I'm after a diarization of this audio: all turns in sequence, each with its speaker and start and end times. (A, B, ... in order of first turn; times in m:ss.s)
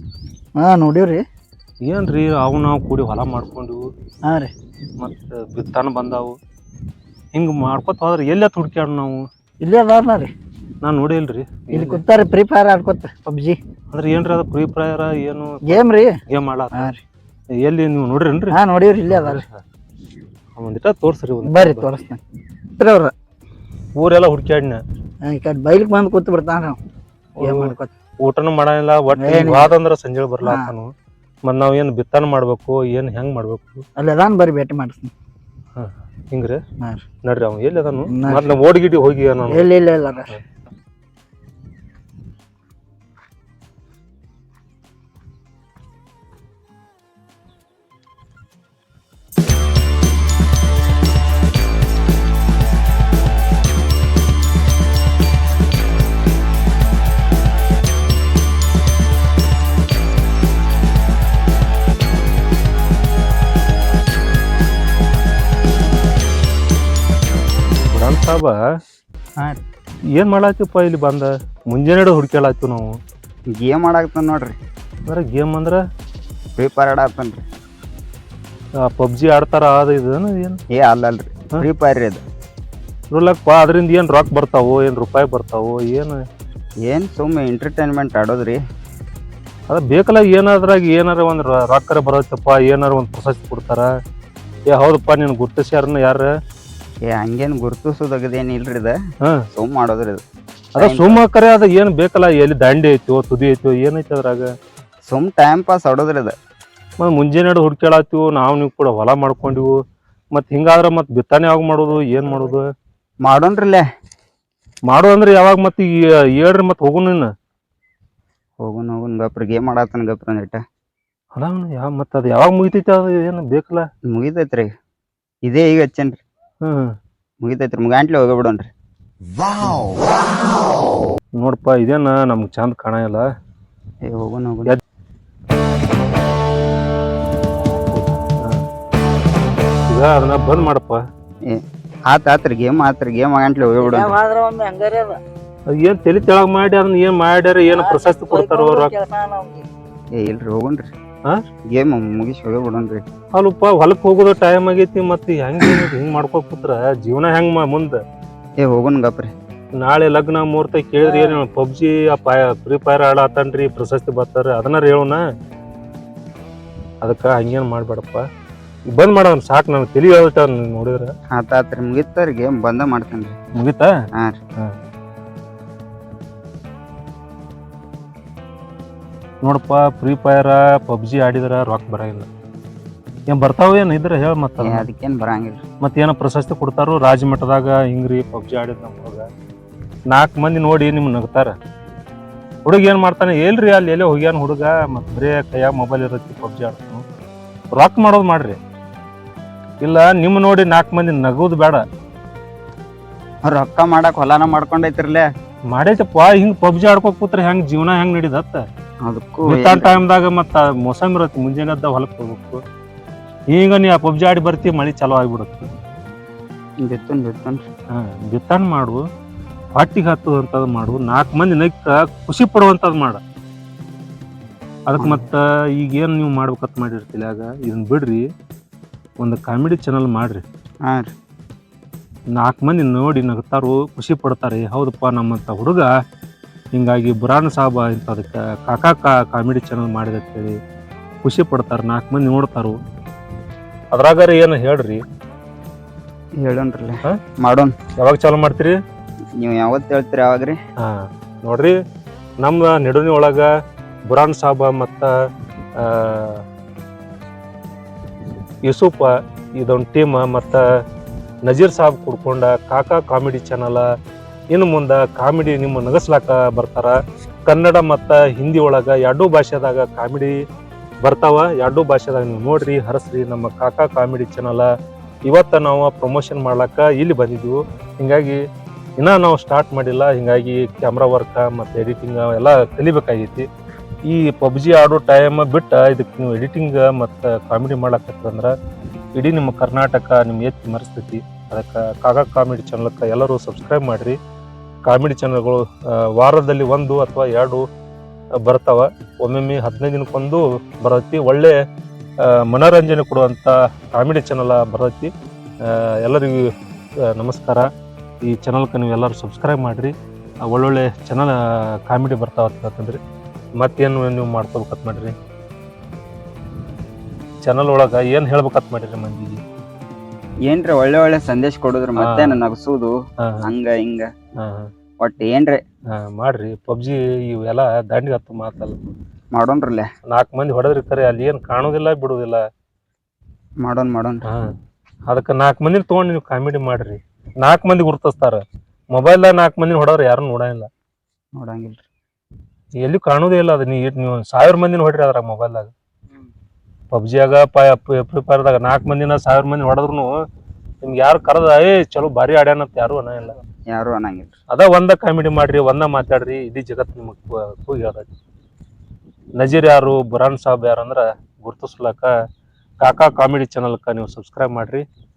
0:00.6-0:01.2 A
0:01.9-0:03.8 B
0:04.3-0:04.5 A
0:05.0-0:06.4 B
0:07.4-0:09.2 B
0:09.6-0:10.3 A
0:10.8-0:12.0 B
0:11.7-0:13.6 A
0:13.9-0:16.9 B
0:15.7-0:16.2 A
0:16.7-0:17.0 A
0:17.6-0:19.6 B
0:18.5-0:19.4 A
0:20.6-0:21.9 B
0:21.4-0:22.2 A
0:22.8-0:23.1 A
0:24.0-0:24.8 B
0:25.2-0:26.8 A
0:27.4-0:27.7 B
0:27.4-0:27.9 A
0:28.2-0:30.9 B
0:29.2-0:29.7 A
0:30.4-0:30.7 A
0:31.4-0:33.8 B
0:34.0-0:35.1 A
0:35.8-0:36.6 B
0:37.2-0:39.7 B
0:38.1-0:38.5 A
0:39.5-0:40.3 A
1:07.7-1:08.6 B
1:10.2-1:13.0 B
1:13.6-1:14.6 C
1:15.1-1:15.8 B
1:16.6-1:17.4 C
1:18.9-1:20.6 B
1:20.7-1:22.2 C
1:23.1-1:26.2 B
1:26.9-1:28.6 C
1:29.7-1:33.9 B
1:34.7-1:36.3 B
1:37.1-1:39.0 C
1:39.5-1:40.2 C
1:40.8-1:41.2 C
1:40.8-1:44.5 B
1:45.1-1:46.3 C
1:47.0-1:49.8 B
1:50.3-1:52.6 B
1:51.9-1:52.5 C
1:53.2-1:53.8 C
1:54.9-1:57.3 B
1:58.6-2:00.6 C
2:01.4-2:03.8 B
2:04.1-2:04.7 C
2:05.5-2:06.2 C
2:06.6-2:06.9 B
2:07.4-2:08.7 C
2:11.4-2:13.2 B
2:14.1-2:14.8 C
2:17.9-2:18.6 B
2:19.9-2:21.0 B
2:21.5-2:24.2 C
2:23.7-2:25.2 A
2:25.7-2:28.9 B
2:27.7-2:29.7 A
2:30.2-2:30.9 C
2:31.7-2:33.0 C
2:33.4-2:38.0 B
2:38.6-2:39.3 C
2:39.8-2:45.2 B
2:41.0-2:41.4 C
2:47.0-2:48.2 B
2:48.9-2:51.1 B
2:51.4-2:53.4 C
2:53.6-2:53.9 B
2:59.4-3:02.3 B
3:03.3-3:04.9 B
3:04.6-3:05.6 C
3:05.8-3:09.3 B
3:10.1-3:11.5 B
3:12.6-3:17.0 B
3:17.8-3:18.6 B
3:19.8-3:21.8 B
3:23.4-3:25.3 C
3:25.7-3:28.6 B
3:29.1-3:30.0 C
3:29.5-3:32.6 B
3:33.5-3:35.7 B
3:36.8-3:37.6 C
3:37.9-3:39.0 B
3:39.8-3:43.2 B
3:44.9-3:48.2 B
3:45.0-3:45.2 C
3:49.2-3:50.4 B
3:52.4-3:55.9 B
3:56.7-4:00.6 B
4:01.2-4:02.8 B
4:03.9-4:05.0 B
4:06.4-4:07.8 C
4:08.0-4:08.8 B
4:09.4-4:10.6 C
4:11.4-4:11.8 B
4:12.4-4:13.5 B
4:14.1-4:15.1 B
4:15.8-4:16.4 B
4:18.6-4:20.6 B
4:21.5-4:23.8 B
4:24.5-4:27.0 B
4:27.5-4:30.3 B
4:31.0-4:34.7 B
4:35.3-4:38.4 B
4:39.0-4:43.5 B
4:44.1-4:48.5 B
4:49.2-4:54.2 B
4:54.9-4:55.6 B
4:56.2-4:57.6 B
4:58.4-5:01.5 B
5:02.2-5:05.1 B
5:05.7-5:06.4 B
5:07.2-5:07.7 B
5:08.3-5:09.9 B
5:10.4-5:11.3 B
5:11.9-5:13.0 B
5:13.6-5:15.1 B
5:17.4-5:19.4 B
5:20.5-5:24.1 C
5:22.0-5:22.4 B
5:24.4-5:24.7 B
5:25.0-5:25.6 C
5:26.0-5:28.8 B
5:29.3-5:29.9 C
5:30.1-5:32.4 B
5:33.6-5:34.3 C
5:35.1-5:38.4 B
5:38.9-5:40.7 B
5:41.4-5:41.8 C
5:42.8-5:45.7 B
5:46.9-5:50.1 B
5:50.8-5:53.4 B
5:53.7-5:54.3 C
5:54.5-5:58.1 B
5:59.4-6:02.1 B
6:02.8-6:04.8 B